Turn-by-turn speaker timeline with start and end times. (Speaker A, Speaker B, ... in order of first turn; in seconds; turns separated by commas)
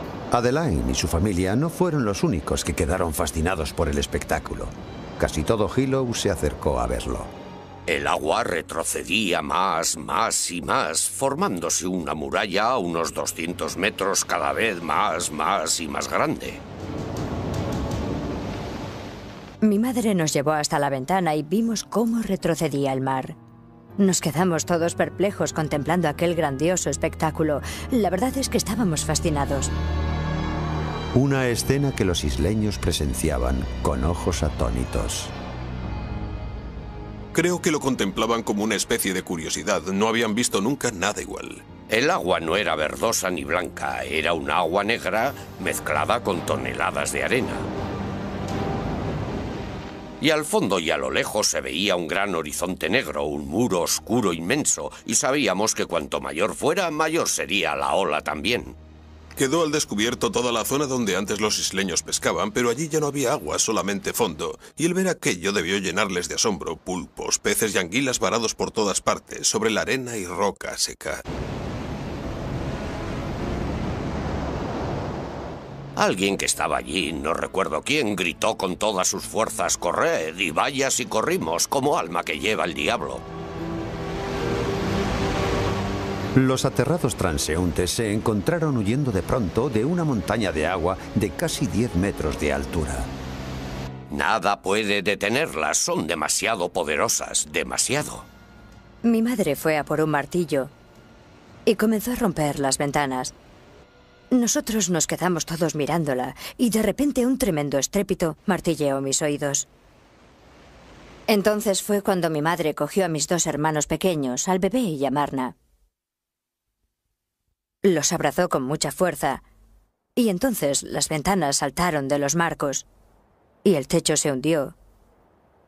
Speaker A: 0.3-7.3, Speaker B: 7.9-16.6, Speaker C: 19.6-23.4, Speaker C: 24.0-29.7, Speaker A: 31.1-35.3, Speaker D: 37.3-41.6, Speaker B: 41.9-47.7, Speaker B: 50.2-58.7, Speaker D: 59.4-71.2, Speaker B: 76.0-83.2, Speaker A: 86.3-93.1, Speaker B: 94.1-98.2, Speaker C: 99.0-100.7, Speaker C: 101.7-103.3, Speaker C: 104.3-109.7, Speaker C: 111.3-115.5, Speaker C: 117.8-119.4, Speaker C: 120.2-122.8, Speaker C: 123.6-124.7